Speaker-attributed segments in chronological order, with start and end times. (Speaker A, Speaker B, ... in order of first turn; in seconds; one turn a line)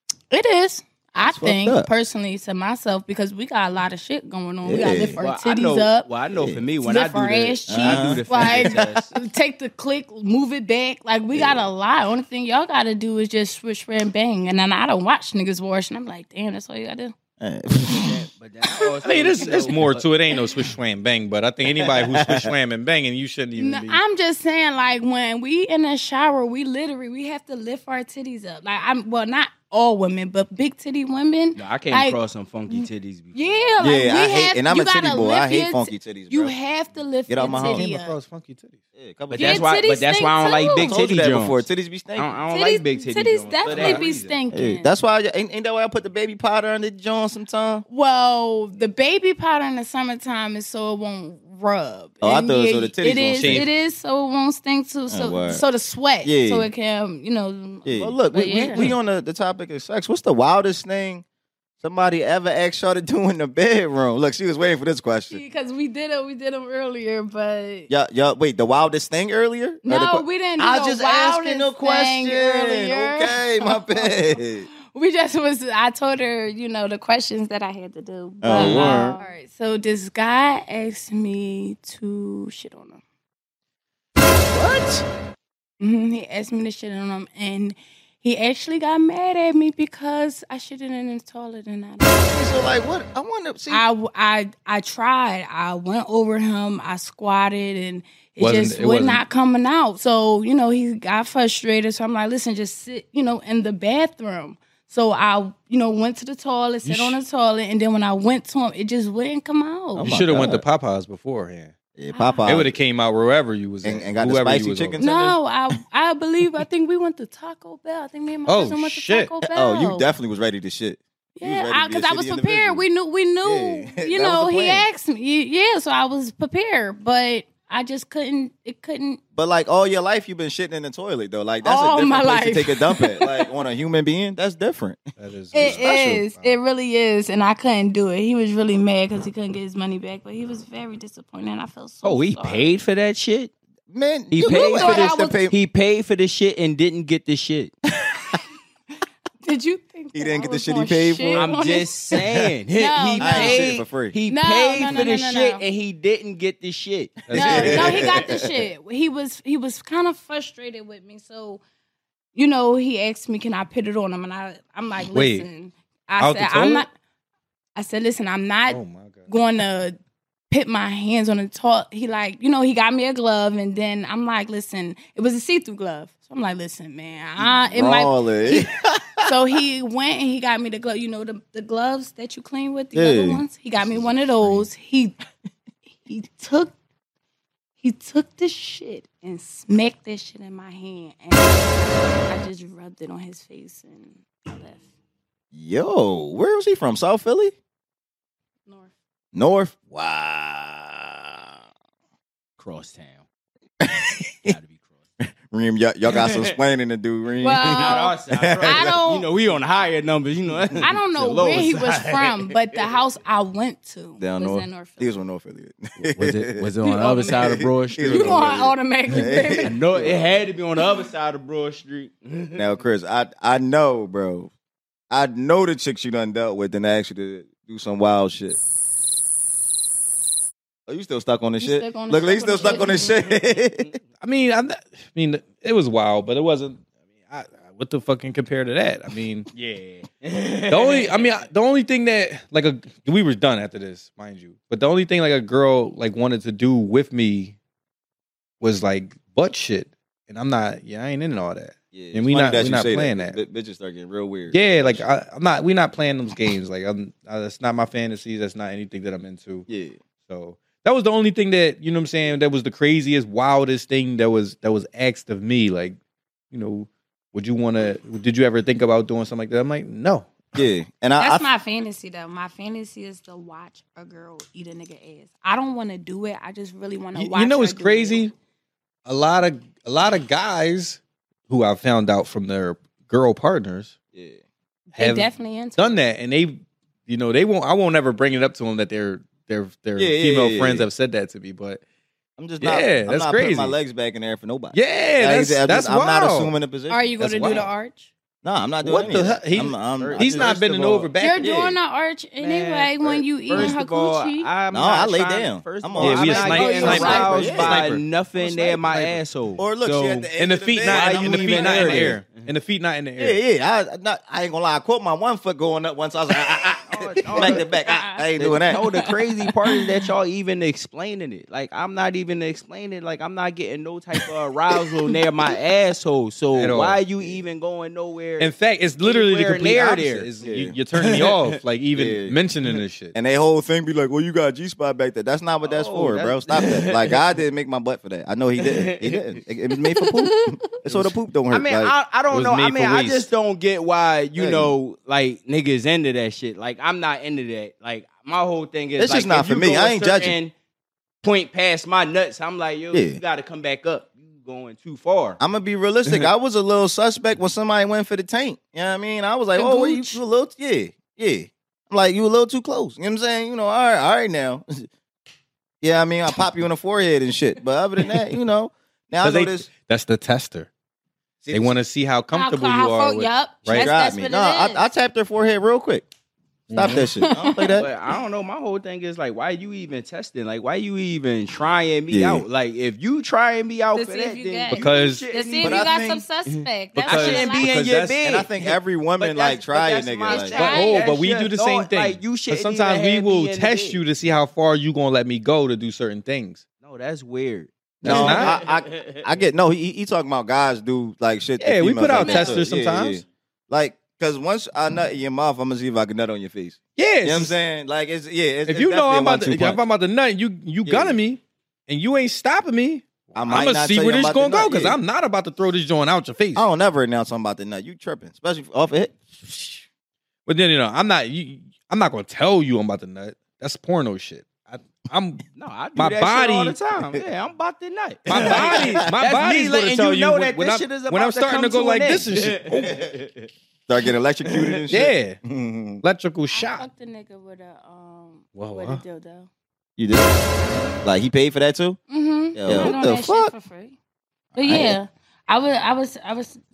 Speaker A: 0.3-6.1
Speaker B: 1.2-1.9
Speaker B: 4.6-5.2
Speaker C: 5.2-9.2
Speaker B: 6.3-6.6
Speaker A: 6.8-17.1
Speaker B: 7.7-8.8
Speaker B: 11.3-11.7
Speaker B: 17.4-18.2
Speaker C: 17.8-20.1
Speaker D: 19.0-24.0
Speaker B: 21.8-22.5
Speaker A: 23.6-32.2
Speaker C: 31.6-33.7
Speaker A: 32.7-38.1
Speaker B: 33.8-36.5
Speaker B: 37.3-37.9
Speaker D: 37.4-38.8
Speaker B: 39.0-39.7
Speaker C: 39.3-44.4
Speaker A: 39.4-41.0
Speaker B: 40.8-42.4
Speaker A: 42.5-44.9
Speaker D: 43.7-44.0
Speaker B: 44.5-47.8
Speaker A: 47.9-58.9
Speaker B: 52.2-53.7
Speaker D: 53.4-53.7
Speaker B: 55.1-55.6
Speaker B: 56.2-56.7
Speaker B: 57.9-61.2
Speaker B: 61.8-65.4
Speaker A: 65.3-67.9
Speaker B: 67.9-74.7
Speaker A: 69.8-83.0
Speaker B: 78.4-79.2
Speaker C: 78.5-79.1
Speaker B: 84.5-85.0
Speaker A: 85.8-92.4
Speaker B: 92.0-93.8
Speaker A: 93.7-110.1
Speaker D: 98.4-99.2
Speaker D: 106.8-107.2
Speaker D: 110.0-111.8
Speaker B: 110.0-110.6
Speaker B: 112.0-112.8
Speaker A: 112.1-112.4
Speaker D: 112.5-115.1
Speaker B: 113.8-115.4
Speaker A: 115.0-120.1
Speaker D: 118.5-119.3
Speaker B: 119.5-122.8
Speaker A: 121.4-129.2
Speaker B: 123.4-124.9
Speaker B: 129.4-135.1
Speaker A: 131.6-133.5
Speaker D: 135.2-136.5
Speaker A: 135.5-142.7
Speaker B: 135.6-136.2
Speaker C: 142.0-143.5
Speaker B: 143.9-145.6
Speaker C: 144.3-147.7
Speaker A: 144.5-145.4
Speaker B: 148.1-148.4
Speaker A: 149.4-152.2
Speaker B: 150.1-151.5
Speaker C: 151.3-158.1
Speaker A: 152.7-153.7
Speaker B: 153.2-154.2
Speaker A: 154.3-155.6
Speaker D: 157.3-158.1
Speaker A: 157.3-161.6
Speaker B: 157.4-158.6
Speaker A: 162.3-166.9
Speaker D: 165.1-165.5
Speaker D: 166.2-166.9
Speaker A: 167.8-170.0
Speaker D: 168.7-169.3
Speaker A: 170.5-178.7
Speaker B: 177.4-179.3
Speaker A: 179.2-185.2
Speaker B: 182.9-183.4
Speaker A: 186.0-186.7
Speaker A: 187.8-194.8
Speaker B: 195.5-197.5
Speaker A: 198.7-198.9
Speaker B: 199.3-201.5
Speaker C: 202.6-203.2
Speaker B: 203.8-204.6
Speaker C: 204.4-204.9
Speaker B: 205.2-209.0
Speaker C: 206.1-206.6
Speaker A: 207.4-209.3
Speaker C: 207.6-212.8
Speaker A: 210.8-215.2
Speaker B: 214.2-216.7
Speaker C: 216.2-218.6
Speaker A: 216.8-219.8
Speaker B: 217.2-220.4
Speaker C: 219.6-222.7
Speaker B: 222.6-224.5
Speaker B: 225.1-228.6
Speaker B: 230.9-233.9
Speaker A: 231.6-233.2
Speaker C: 232.9-233.6
Speaker D: 234.2-239.5
Speaker C: 239.5-241.3
Speaker D: 240.7-247.6
Speaker D: 248.6-253.4
Speaker B: 251.9-255.1
Speaker D: 254.5-259.7
Speaker B: 259.7-260.0
Speaker D: 260.2-266.0
Speaker D: 266.5-270.6
Speaker B: 270.6-271.5
Speaker A: 271.2-278.2
Speaker D: 277.1-278.3
Speaker D: 279.1-284.0
Speaker B: 284.1-284.4
Speaker A: 284.9-286.0
Speaker D: 285.0-291.8
Speaker B: 290.0-290.9
Speaker B: 292.4-297.7
Speaker D: 292.6-293.8
Speaker D: 294.7-296.5
Speaker A: 296.9-298.1
Speaker D: 297.2-297.6
Speaker B: 298.4-301.8
Speaker D: 298.8-301.6
Speaker C: 299.0-301.1
Speaker A: 301.2-304.5
Speaker C: 302.4-312.5
Speaker B: 304.7-307.9
Speaker D: 306.0-309.2
Speaker A: 306.5-307.6
Speaker B: 309.6-312.2
Speaker D: 310.4-313.4
Speaker B: 313.2-318.9
Speaker C: 316.9-317.7
Speaker A: 317.3-319.9
Speaker C: 318.4-330.3
Speaker D: 326.6-327.0
Speaker D: 328.4-333.1
Speaker B: 330.4-330.8
Speaker C: 331.0-331.6
Speaker B: 331.9-332.4
Speaker B: 333.1-341.9
Speaker C: 335.6-337.2
Speaker C: 338.6-339.2
Speaker A: 340.3-340.6
Speaker C: 341.5-350.5
Speaker D: 342.3-343.3
Speaker B: 344.4-344.7
Speaker B: 349.0-350.4
Speaker C: 351.2-355.4
Speaker B: 352.9-353.2
Speaker B: 355.4-364.9
Speaker A: 359.6-360.2
Speaker B: 365.8-369.7
Speaker D: 369.2-370.7
Speaker B: 371.4-371.8
Speaker D: 371.5-373.9
Speaker A: 372.3-374.9
Speaker B: 373.7-376.1
Speaker D: 376.7-377.1
Speaker B: 376.7-377.9
Speaker A: 376.8-377.9
Speaker C: 377.7-394.0
Speaker B: 382.1-382.4
Speaker A: 383.9-387.7
Speaker D: 384.7-385.3
Speaker B: 385.6-386.2
Speaker D: 386.9-387.7
Speaker B: 387.6-390.6
Speaker A: 390.3-391.1
Speaker D: 390.6-396.6
Speaker C: 396.8-399.2
Speaker B: 398.0-409.8
Speaker D: 398.0-398.6
Speaker D: 401.6-403.2
Speaker A: 402.1-402.6
Speaker D: 407.0-407.6
Speaker D: 408.7-416.6
Speaker B: 410.9-411.2
Speaker B: 413.4-415.0
Speaker B: 416.6-419.1
Speaker D: 419.4-419.9
Speaker D: 420.5-425.4
Speaker C: 425.6-433.5
Speaker D: 426.0-426.8
Speaker D: 428.3-433.0
Speaker B: 428.4-429.1
Speaker B: 433.9-436.0
Speaker C: 434.4-434.9
Speaker D: 434.9-435.4
Speaker D: 436.0-436.9
Speaker A: 436.5-439.5
Speaker D: 438.6-439.0
Speaker B: 440.0-440.4
Speaker B: 441.0-442.0
Speaker A: 442.1-444.0
Speaker B: 442.6-443.5
Speaker A: 444.6-446.6
Speaker B: 444.6-445.0